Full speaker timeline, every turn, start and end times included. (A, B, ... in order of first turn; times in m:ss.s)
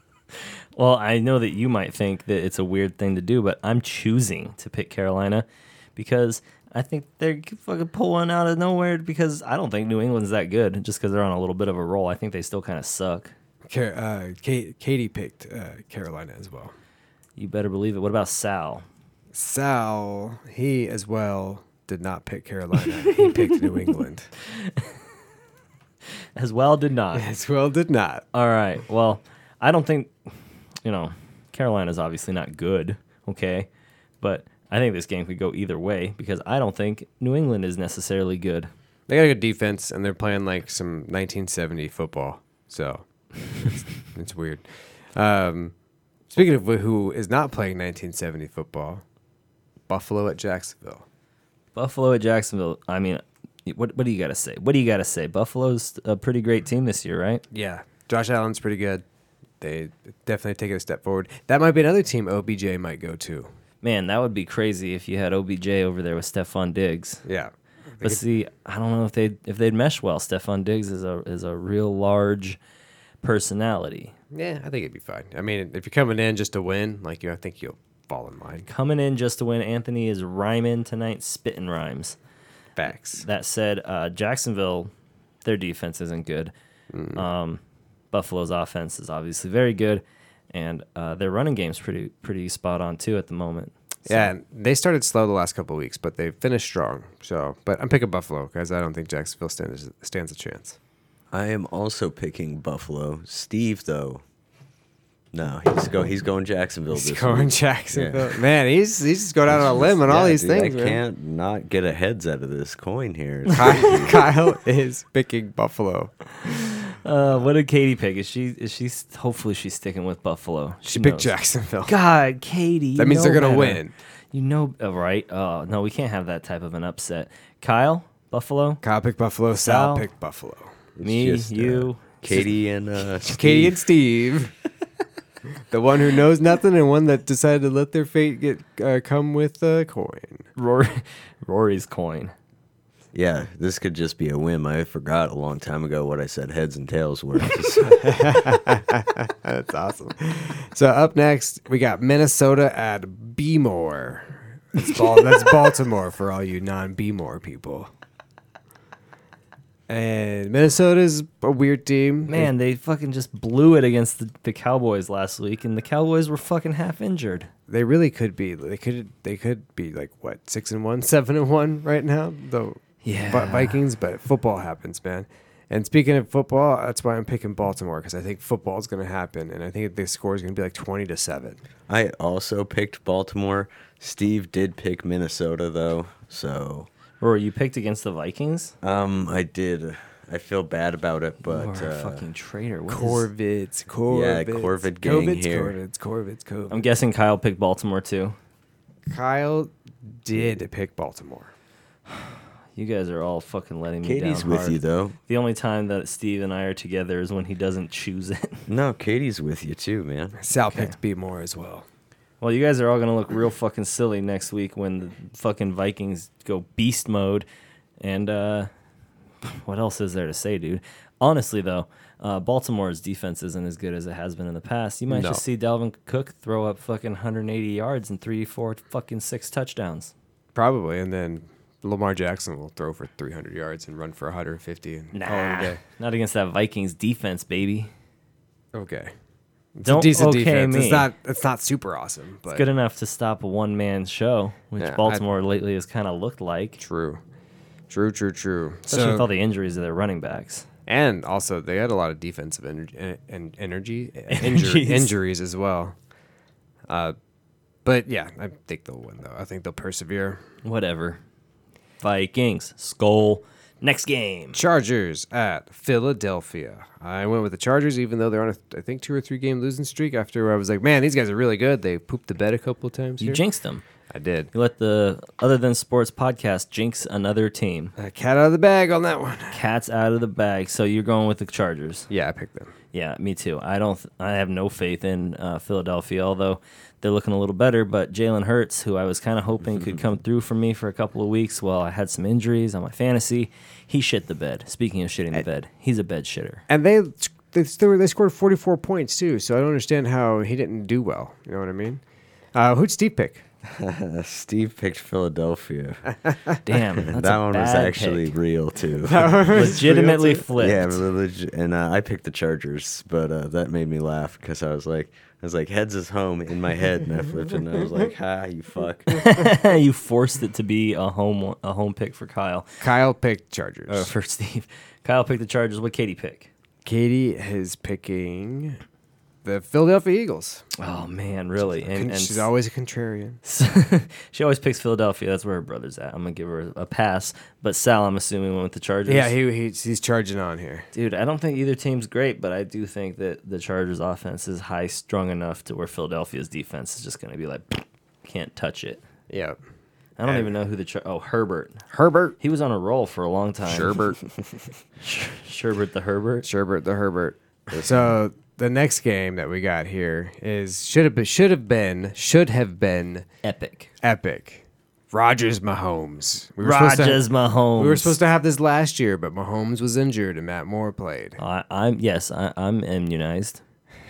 0:00.8-0:13.3 A
0:13.7-0:16.7 B
0:17.4-0:18.8 A
0:19.3-0:24.3 B
0:23.0-0:23.9 A
0:24.4-0:24.9 A
0:26.4-0:27.3 A
0:27.2-0:28.3 B
0:28.3-0:30.1 A
0:30.8-0:33.7 A
0:34.2-0:38.7 A
0:39.1-0:45.7 B
0:46.3-0:49.0 B
0:49.9-0:51.0 B
0:51.8-0:57.4 A
0:57.5-0:59.0 B
0:59.6-1:03.5 B
1:03.8-1:07.2 A
1:07.2-1:08.2 B
1:08.0-1:12.6 A
1:13.2-1:14.1 A
1:14.3-1:18.7 B
1:18.7-1:22.2 A
1:22.8-1:23.2 B
1:22.8-1:24.9 A
1:25.4-1:26.5 A
1:26.9-1:27.2 B
1:27.2-1:27.6 A
1:28.1-1:34.3 A
1:34.1-1:40.8 B
1:41.3-1:44.2 C
1:45.3-1:48.4 C
1:46.9-1:51.0 B
1:49.5-1:54.3 C
1:53.5-1:56.1 B
1:56.4-2:01.3 A
2:00.8-2:01.9 B
2:01.8-2:08.8 A
2:03.0-2:03.9 B
2:08.8-2:10.8 B
2:09.6-2:10.1 A
2:11.0-2:13.8 C
2:11.0-2:12.0 A
2:13.2-2:14.5 B
2:15.7-2:20.5 B
2:20.6-2:22.3 A
2:23.1-2:28.5 C
2:27.9-2:37.9 B
2:39.9-2:42.5 B
2:42.3-2:47.5 A
2:47.7-3:01.6 B
2:53.0-2:53.8 A
3:01.9-3:06.9 C
3:07.2-3:08.7 A
3:08.8-3:12.2 C
3:11.4-3:13.3 A
3:12.9-3:16.8 B
3:14.1-3:15.8 C
3:16.7-3:18.4 A
3:19.1-3:21.5 B
3:22.2-3:28.6 A
3:24.0-3:25.2 C
3:28.7-3:30.4 C
3:30.4-3:31.9 B
3:30.7-3:31.0 A
3:32.4-3:37.5 A
3:38.0-3:38.7 A
3:39.4-3:50.1 A
3:45.1-3:45.4 B
3:50.6-3:55.8 B
3:55.1-3:57.9 A
3:58.7-3:59.1 B
3:59.8-4:02.7 B
3:59.9-4:01.1 A
4:02.5-4:06.8 A
4:04.8-4:05.2 B
4:06.8-4:07.2 B
4:07.9-4:09.3 B
4:08.9-4:10.7 A
4:10.9-4:16.0 B
4:14.3-4:15.1 A
4:16.9-4:17.2 B
4:17.8-4:20.4 B
4:20.6-4:21.2 A
4:22.0-4:24.6 A
4:24.5-4:33.4 B
4:33.2-4:33.8 A
4:34.1-4:34.5 B
4:34.5-4:37.9 A
4:38.0-4:39.6 B
4:39.5-4:42.1 A
4:42.1-4:42.7 B
4:42.9-4:56.6 A
4:56.7-5:02.0 B
5:02.5-5:03.5 B
5:03.7-5:06.4 C
5:06.6-5:08.3 A
5:07.0-5:09.5 C
5:09.0-5:10.5 B
5:09.4-5:11.0 A
5:10.6-5:19.4 C
5:19.1-5:22.8 A
5:22.8-5:24.1 B
5:23.9-5:26.5 A
5:26.8-5:28.8 B
5:29.4-5:30.7 B
5:30.8-5:32.5 A
5:31.6-5:33.4 B
5:33.4-5:39.3 A
5:39.1-5:40.9 B
5:40.9-5:49.0 A
5:49.3-5:49.6 B
5:50.2-5:51.8 A
5:51.9-5:52.4 B
5:52.4-5:54.0 A
5:53.7-5:54.2 B
5:55.0-5:56.5 A
5:56.4-6:03.3 B
6:03.4-6:03.9 A
6:04.0-6:11.4 B
6:06.6-6:08.2 A
6:11.4-6:13.6 A